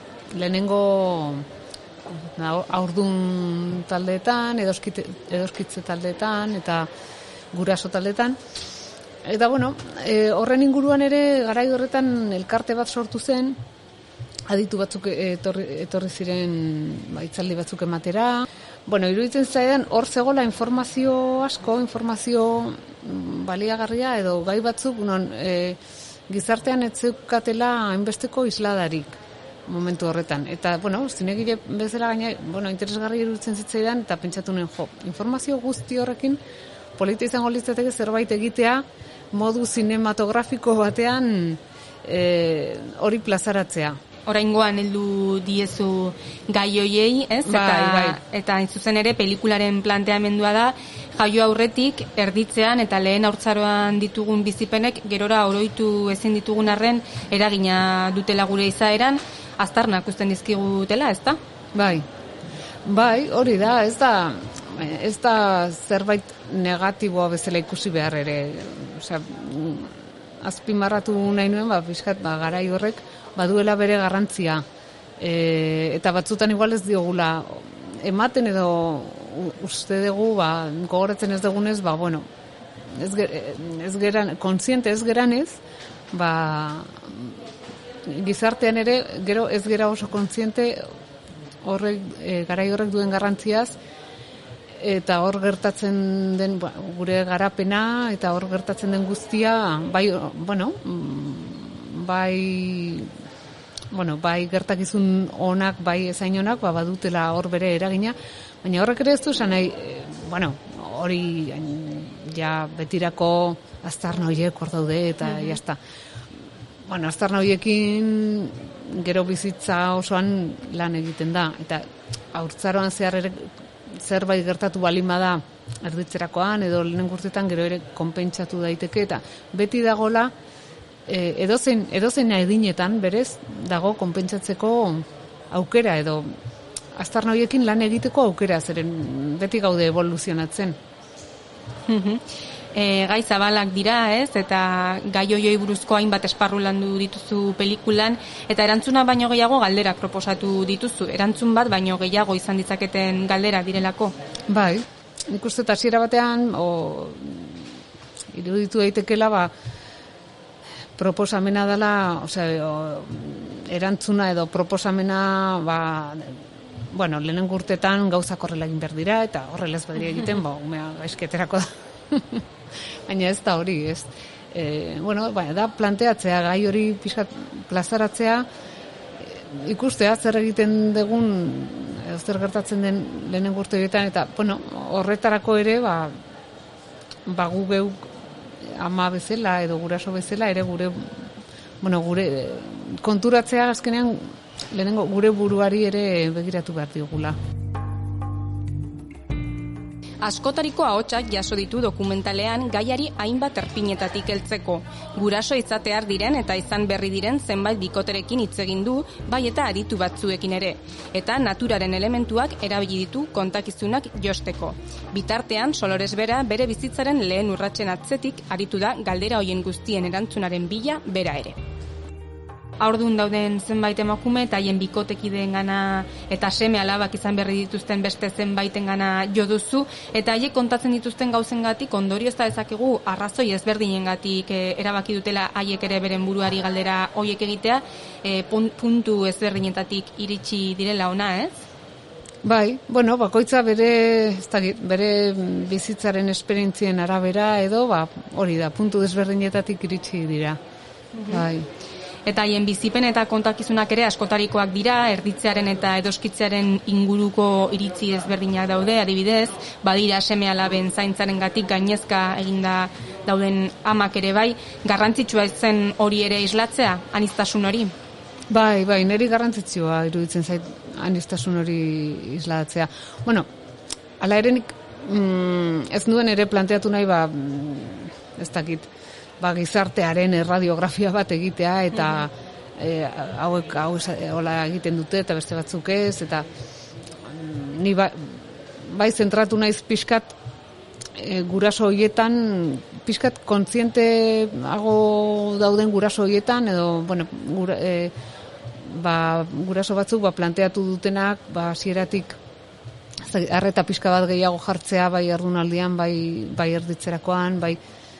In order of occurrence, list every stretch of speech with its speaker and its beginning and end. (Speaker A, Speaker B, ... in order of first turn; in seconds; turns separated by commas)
Speaker A: 0.3-1.4, Speaker A: 2.0-6.9, Speaker A: 7.5-8.4, Speaker A: 9.2-13.6, Speaker A: 14.5-36.4, Speaker A: 37.0-44.0, Speaker B: 44.3-61.4, Speaker A: 47.4-48.2, Speaker A: 61.8-62.0, Speaker A: 62.9-74.6, Speaker A: 75.2-82.2, Speaker A: 82.9-85.6, Speaker A: 86.1-87.4, Speaker A: 88.0-90.8, Speaker A: 91.6-93.8, Speaker A: 94.8-103.1, Speaker A: 103.9-115.8, Speaker B: 115.3-115.5, Speaker A: 116.9-130.3, Speaker A: 131.1-136.3, Speaker A: 136.9-140.8, Speaker B: 141.9-142.2, Speaker B: 142.7-154.1, Speaker A: 154.5-157.7, Speaker A: 158.3-159.5, Speaker A: 160.9-172.4, Speaker A: 173.1-178.5, Speaker A: 179.2-186.1, Speaker A: 187.2-188.0, Speaker A: 188.6-191.1, Speaker A: 191.8-197.4, Speaker B: 200.2-221.6, Speaker B: 222.8-241.5, Speaker A: 242.4-250.6, Speaker B: 251.1-251.4, Speaker A: 251.3-251.7, Speaker B: 252.2-267.9, Speaker A: 268.5-273.5, Speaker A: 274.2-278.9, Speaker A: 279.4-286.5, Speaker A: 287.2-290.3, Speaker A: 291.1-298.1, Speaker A: 298.8-302.4, Speaker A: 303.2-307.8